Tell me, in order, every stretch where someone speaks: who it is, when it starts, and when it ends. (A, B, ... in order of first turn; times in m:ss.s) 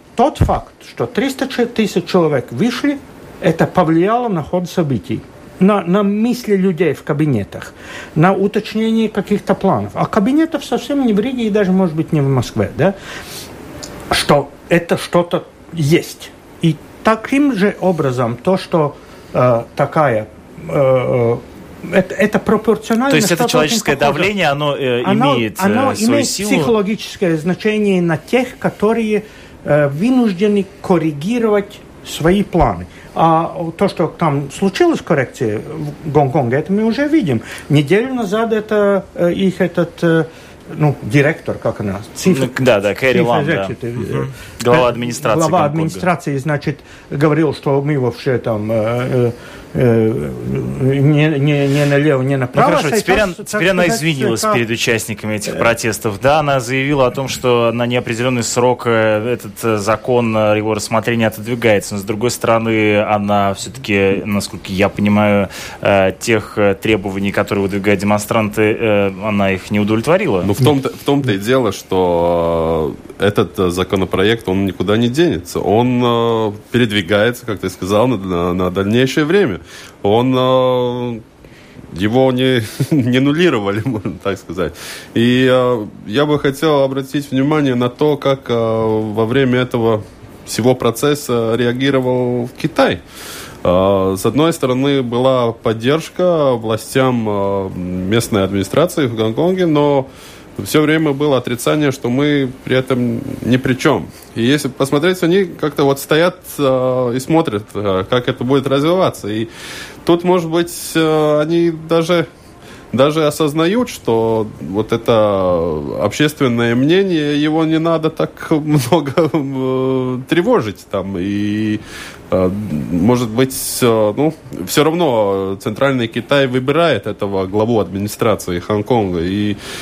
0:00.2-0:12.9 A
0:14.1-0:24.3 A
0:23.1-0:26.7 B
0:25.0-0:42.6 A
0:42.2-0:46.1 B
0:43.1-0:54.6 A
0:52.5-1:10.5 B
1:10.4-1:21.2 C
1:21.9-1:33.0 C
1:33.6-1:49.5 C
1:50.0-1:52.3 C
1:52.9-2:09.6 C